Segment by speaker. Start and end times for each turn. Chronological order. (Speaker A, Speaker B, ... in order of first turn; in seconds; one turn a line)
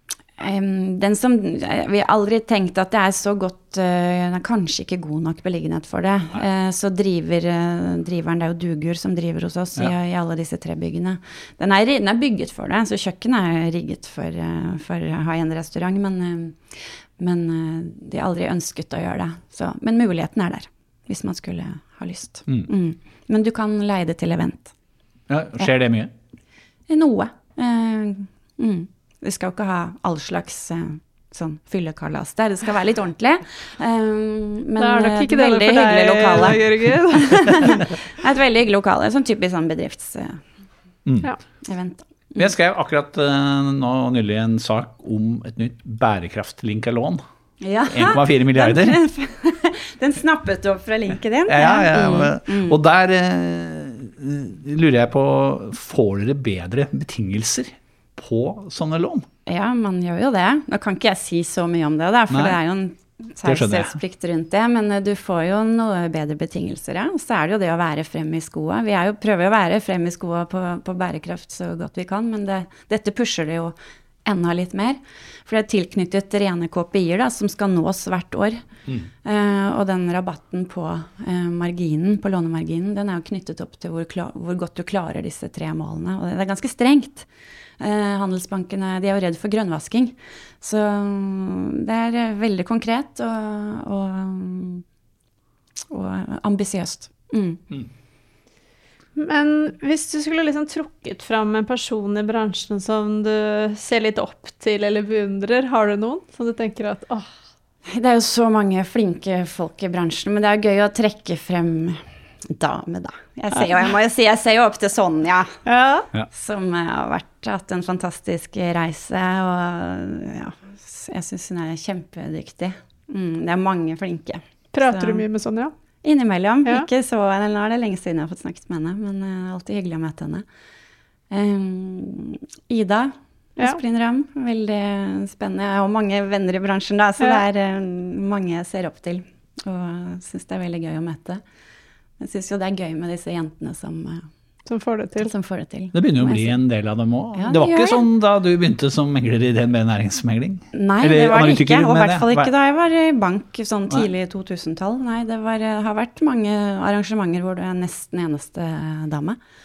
Speaker A: 0.4-24.7
Speaker B: 25.3-26.1
Speaker A: 26.9-40.4
Speaker C: 34.8-37.8
Speaker A: 41.6-42.5
Speaker B: 42.4-47.2
Speaker A: 47.6-52.8
Speaker B: 47.9-49.0
Speaker B: 51.5-59.2
Speaker A: 59.5-78.6
Speaker B: 62.3-62.6
Speaker B: 63.4-63.9
Speaker A: 79.2-87.3
Speaker A: 87.8-94.8
Speaker A: 95.9-97.6
Speaker C: 99.2-107.3
Speaker A: 107.9-115.6
Speaker C: 115.7-116.1
Speaker A: 116.3-125.2
Speaker C: 124.7-125.7
Speaker A: 126.0-130.4
Speaker A: 131.3-141.4
Speaker A: 142.2-144.3
Speaker C: 144.7-145.3
Speaker A: 145.2-146.5
Speaker B: 145.9-152.5
Speaker A: 147.4-148.0
Speaker A: 150.7-159.4